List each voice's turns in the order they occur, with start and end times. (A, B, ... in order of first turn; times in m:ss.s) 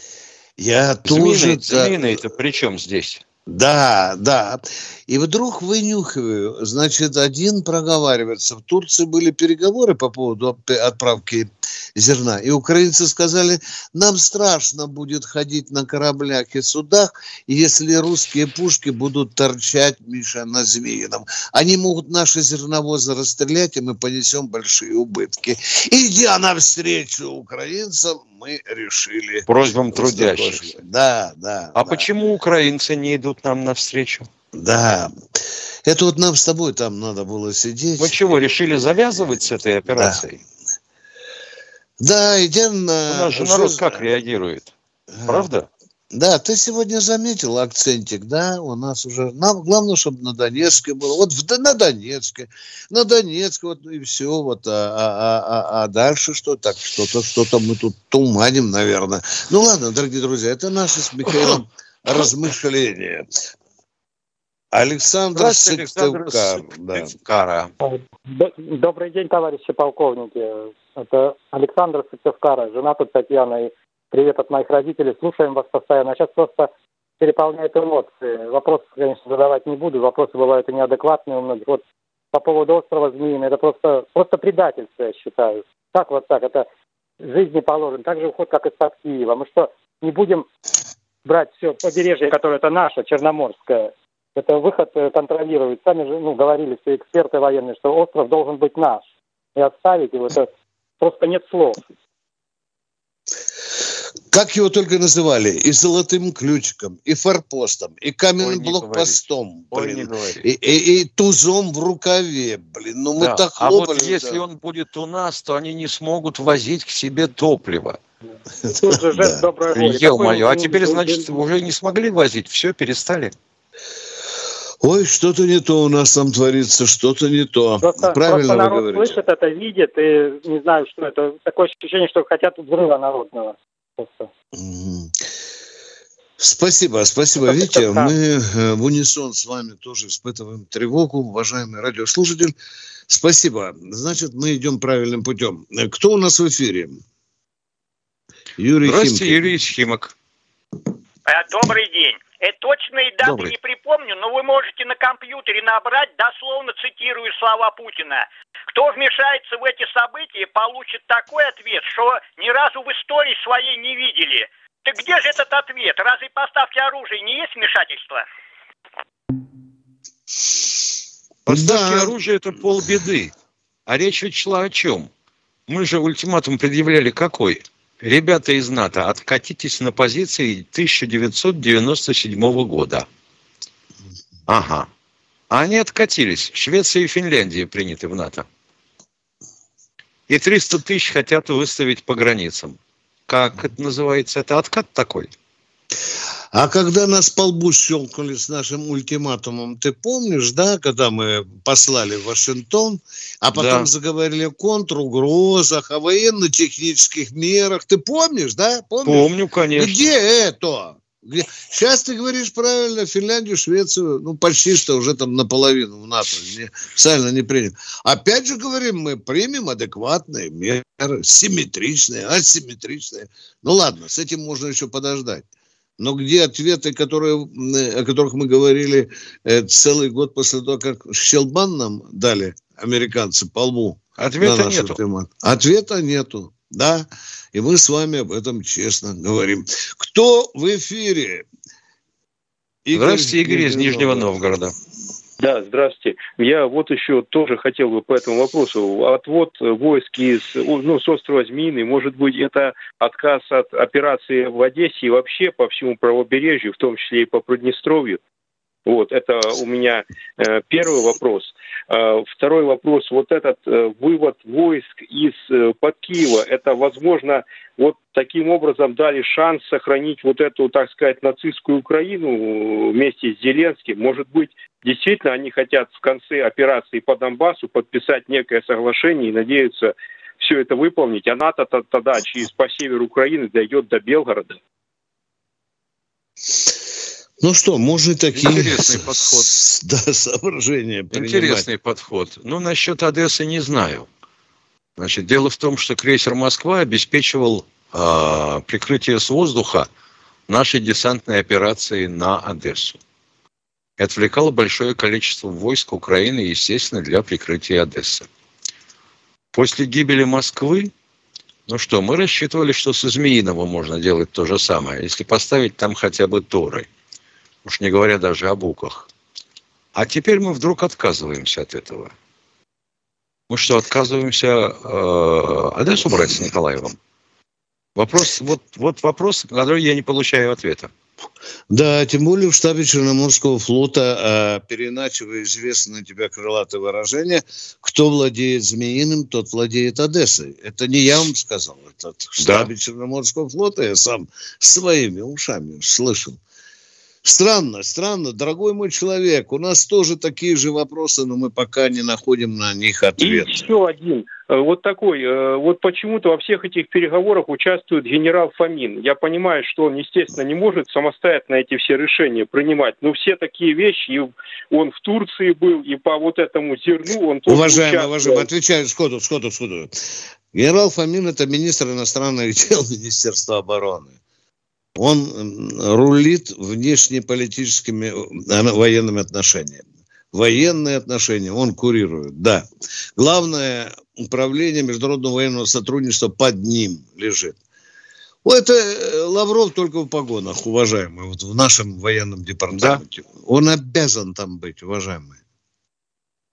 0:00.6-0:02.0 A
0:01.1-0:03.2 B
0:03.5-0:32.1 A
0:29.5-0:30.8 B
0:31.8-0:34.3 B
0:34.5-0:35.1 A
0:35.9-0:38.2 A
0:38.0-0:40.4 B
0:40.0-0:40.2 A
0:42.0-0:44.0 A
0:43.1-0:44.7 B
0:45.2-0:45.5 A
0:45.3-0:45.7 B
0:46.1-1:03.3 A
1:04.7-1:07.1 A
1:05.3-1:07.7 B
1:07.8-1:16.7 C
1:17.2-1:26.7 C
1:27.2-1:30.5 C
1:31.2-1:39.0 C
1:39.6-1:41.8 C
1:44.3-1:54.4 A
1:48.4-1:49.2 B
1:49.7-1:50.4 B
1:53.2-1:58.0 B
1:58.7-1:59.4 A
1:58.7-2:01.3 C
1:59.7-2:03.3 B
2:04.8-2:09.2 A
2:07.8-2:14.3 C
2:14.5-2:15.2 A
2:16.4-2:22.6 A
2:17.5-2:18.1 C
2:23.1-2:27.0 A
2:28.6-2:29.4 A
2:28.8-2:30.1 B
2:31.3-2:48.2 D
2:33.2-2:33.5 B
2:51.5-2:53.3 B
2:51.5-2:52.1 A
2:53.9-2:55.1 B
2:55.7-3:03.1 B
3:04.5-3:04.9 B
3:05.5-3:08.5 B
3:10.3-3:15.3 B
3:16.5-3:45.4 A
3:23.5-3:23.9 B
3:29.0-3:30.1 B
3:46.0-4:01.5 A
3:54.2-3:55.0 B
4:02.9-4:04.4 A
4:02.9-4:04.7 B
4:05.4-4:18.2 E
4:18.9-4:44.6 E
4:47.4-4:51.7 A
4:48.4-4:49.5 B
4:51.1-4:54.1 B
4:55.0-4:59.9 B
5:00.5-5:03.0 B
5:04.0-5:08.3 B
5:09.5-5:10.9 B
5:11.7-5:16.9 B
5:17.6-5:19.1 B
5:20.0-5:22.1 B
5:23.5-5:27.0 B
5:28.0-5:30.9 B
5:31.7-5:46.4 A
5:42.4-5:42.7 B
5:47.2-5:53.7 A
5:53.2-6:08.5 E
6:07.5-6:09.9 A
6:10.5-6:14.2 A
6:15.0-6:22.6 A
6:23.2-6:27.6 A
6:28.4-6:35.4 A
6:32.7-6:33.0 B